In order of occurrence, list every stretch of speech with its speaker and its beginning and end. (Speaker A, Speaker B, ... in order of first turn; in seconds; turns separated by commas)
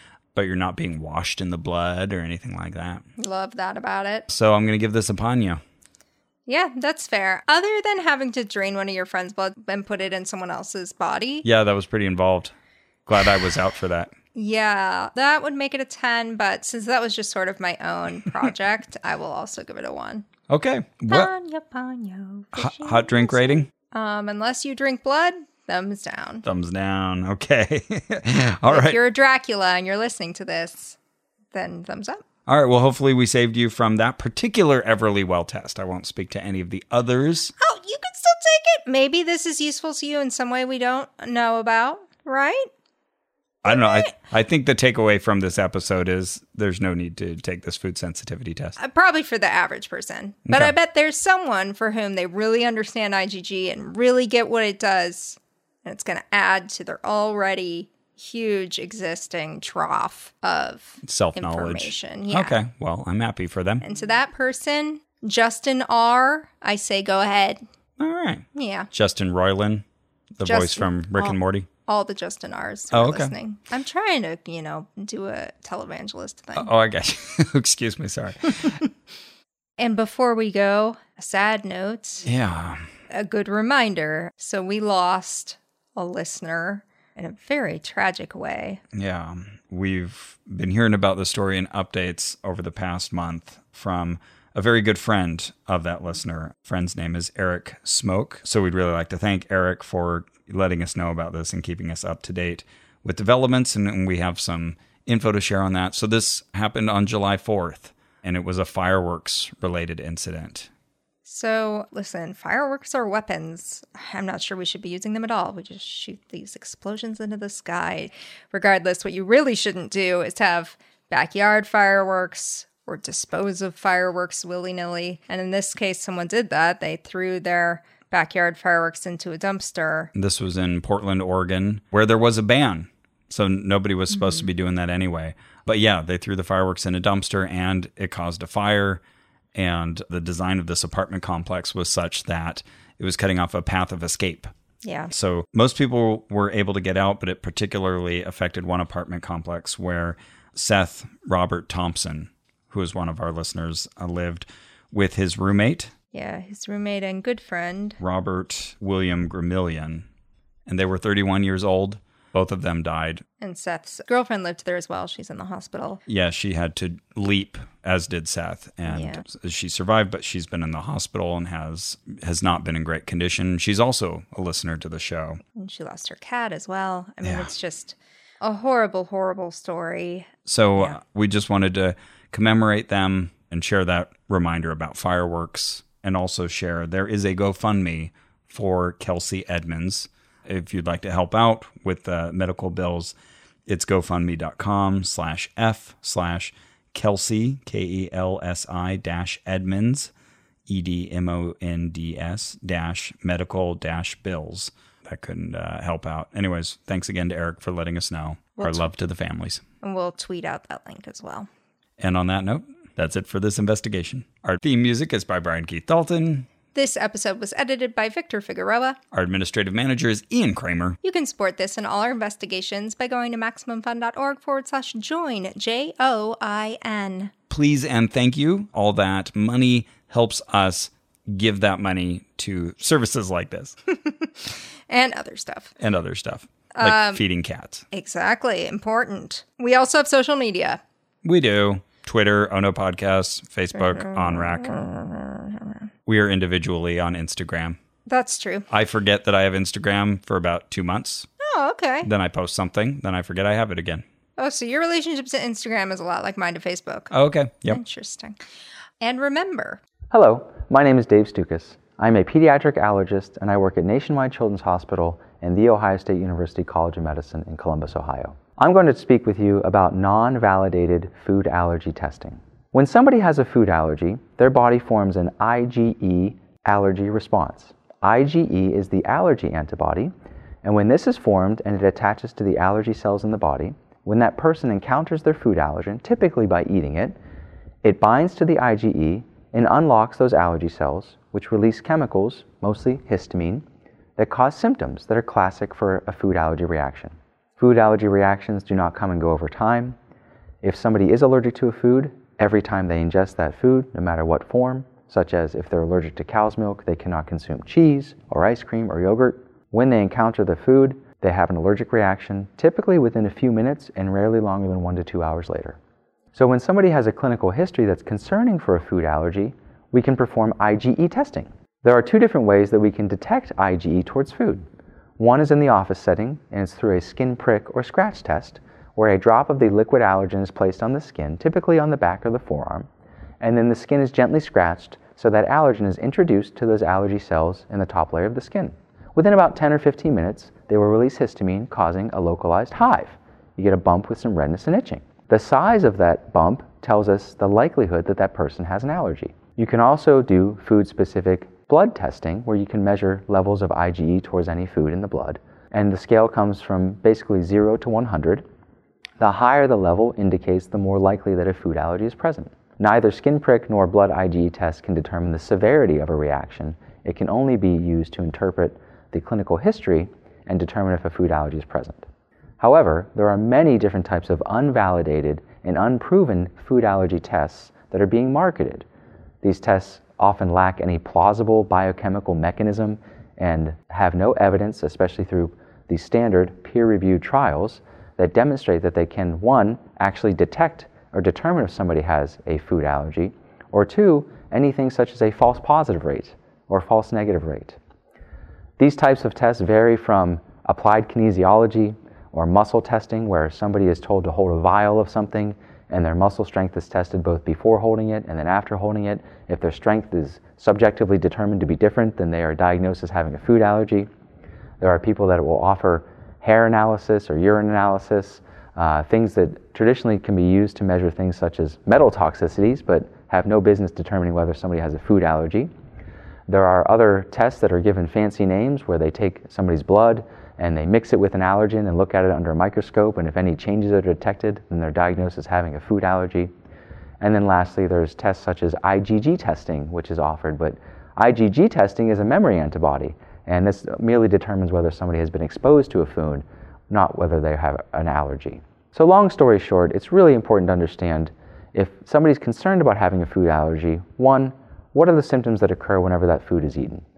Speaker A: 0.3-3.0, Speaker B: 3.2-4.3, Speaker A: 4.3-5.6, Speaker B: 6.5-11.4, Speaker A: 11.4-12.5, Speaker A: 13.1-14.1, Speaker B: 14.3-20.3, Speaker A: 20.5-21.3, Speaker B: 21.1-26.4, Speaker A: 22.6-23.7, Speaker A: 26.4-29.0, Speaker B: 28.7-31.0, Speaker B: 31.5-32.2, Speaker A: 32.5-37.5, Speaker B: 37.6-42.7, Speaker A: 43.6-48.8, Speaker B: 43.7-44.1, Speaker B: 48.8-62.6, Speaker A: 50.5-50.8, Speaker A: 61.0-63.8, Speaker B: 63.8-67.6, Speaker A: 68.0-69.8, Speaker B: 68.5-68.9, Speaker A: 70.4-71.7, Speaker B: 70.4-76.7, Speaker A: 72.9-73.3, Speaker A: 76.6-78.8, Speaker B: 79.8-82.3, Speaker A: 82.2-82.8, Speaker B: 83.1-88.8, Speaker A: 88.9-110.7, Speaker B: 111.3-130.1, Speaker A: 130.2-139.0, Speaker A: 139.5-144.5, Speaker B: 144.8-145.1, Speaker A: 145.1-155.9, Speaker B: 156.1-158.0, Speaker A: 158.0-160.1, Speaker A: 160.7-163.2, Speaker B: 163.4-166.0, Speaker A: 166.1-175.4, Speaker B: 168.9-169.2, Speaker B: 175.6-181.0, Speaker A: 177.2-177.5, Speaker A: 180.5-193.2, Speaker A: 193.7-200.1, Speaker A: 200.7-209.6, Speaker B: 208.6-208.9, Speaker B: 209.8-211.5, Speaker A: 212.0-216.5, Speaker B: 216.7-219.0, Speaker A: 219.1-221.0, Speaker B: 221.0-227.3, Speaker A: 227.5-233.8, Speaker B: 233.9-235.7, Speaker A: 235.8-237.8, Speaker B: 236.8-237.2, Speaker B: 237.9-240.8, Speaker A: 241.2-244.8, Speaker B: 243.7-245.8, Speaker A: 246.1-247.8, Speaker B: 248.1-248.7, Speaker A: 248.7-251.3, Speaker B: 251.4-252.1, Speaker A: 252.0-254.0, Speaker B: 254.4-257.1, Speaker A: 257.1-257.8, Speaker B: 257.6-258.4, Speaker B: 259.0-259.8, Speaker C: 260.1-280.1, Speaker C: 280.6-287.2, Speaker C: 287.8-293.6, Speaker C: 294.2-300.0, Speaker C: 300.6-315.8, Speaker C: 316.3-324.6, Speaker C: 325.2-332.9, Speaker C: 333.4-358.4, Speaker C: 359.2-372.1, Speaker C: 372.6-378.9, Speaker C: 379.4-397.8, Speaker C: 398.8-414.1, Speaker C: 414.8-425.7, Speaker C: 426.5-436.5, Speaker C: 437.2-457.0